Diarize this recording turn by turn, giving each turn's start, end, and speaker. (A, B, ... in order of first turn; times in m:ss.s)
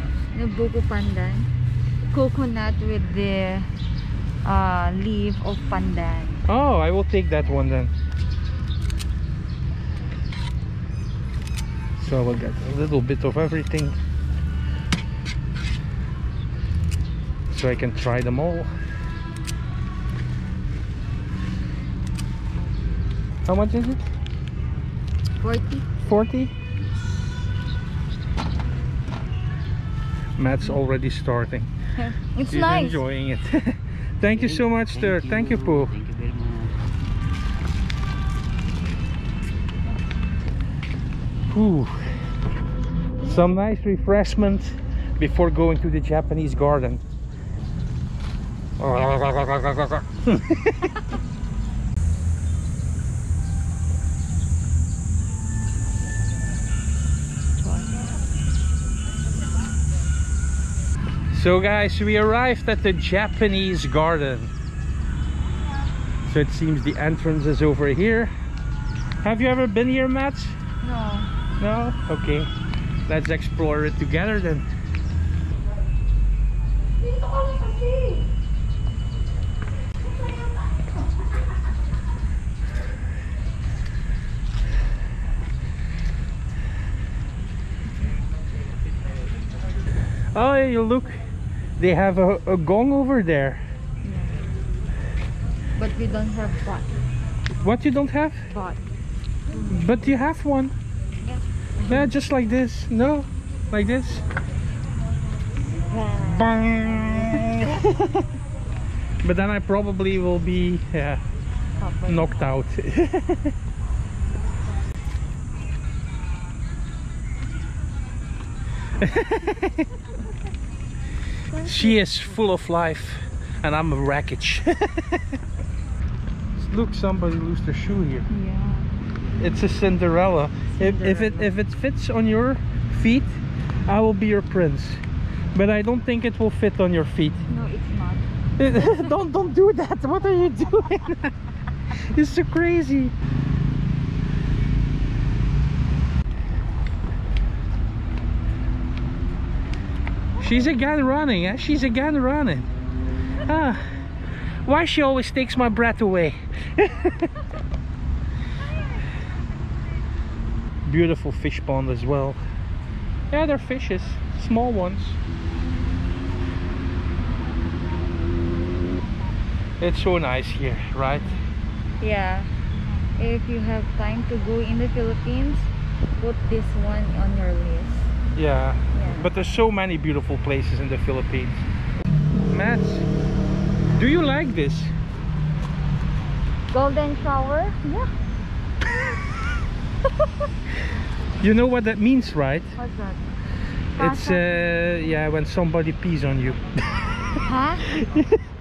0:00.3-0:01.5 A
0:02.1-0:03.7 A
0:04.4-0:06.4 A
0:06.5-0:07.9 B
0:12.0-0:14.0 B
0:17.5-0:18.7 B
0:23.5-0:24.0 B
0:25.4-0:25.9 A
0:26.0-0:26.5 B
0:30.4-0:31.7 B
0:32.0-0:33.0 A
0:32.5-0:35.9 B
0:34.3-0:36.8 C
0:41.5-0:42.0 B
0:43.2-0:47.0 B
0:48.8-0:50.8 B
0:57.6-0:58.1 A
1:01.3-1:04.5 B
1:06.3-1:08.3 B
1:09.2-1:10.6 B
1:10.8-1:11.3 A
1:11.6-1:12.5 B
1:13.1-1:14.7 B
1:17.6-1:18.2 A
1:30.3-1:31.2 B
1:31.8-1:33.6 B
1:34.0-1:34.4 A
1:35.8-1:37.0 A
1:37.6-1:38.5 B
1:38.5-1:38.8 A
1:39.5-1:40.0 A
1:39.7-1:40.7 B
1:41.2-1:42.1 A
1:41.9-1:44.2 B
1:45.9-1:47.5 A
1:46.2-1:48.3 B
1:49.2-1:51.2 B
1:51.8-1:52.5 A
1:52.1-1:53.5 B
1:59.0-1:59.9 B
2:01.5-2:02.2 A
2:01.6-2:05.2 B
2:06.6-2:08.3 B
2:08.3-2:08.9 A
2:09.4-2:15.0 B
2:10.7-2:11.5 A
2:15.5-2:17.4 B
2:17.5-2:19.1 A
2:18.6-2:21.3 B
2:22.1-2:23.1 B
2:30.4-2:32.7 B
2:33.4-2:33.8 B
2:34.6-2:37.3 B
2:40.8-2:42.4 B
2:43.3-2:45.2 B
2:49.8-2:51.3 B
2:52.0-2:58.1 A
2:58.4-3:01.6 B
2:58.9-2:59.3 A
3:02.5-3:03.0 B
3:03.9-3:04.9 B
3:06.7-3:08.1 A
3:11.4-3:12.7 B
3:12.8-3:13.2 A
3:14.0-3:15.1 A
3:14.0-3:16.6 B
3:17.4-3:18.1 A
3:17.8-3:18.4 B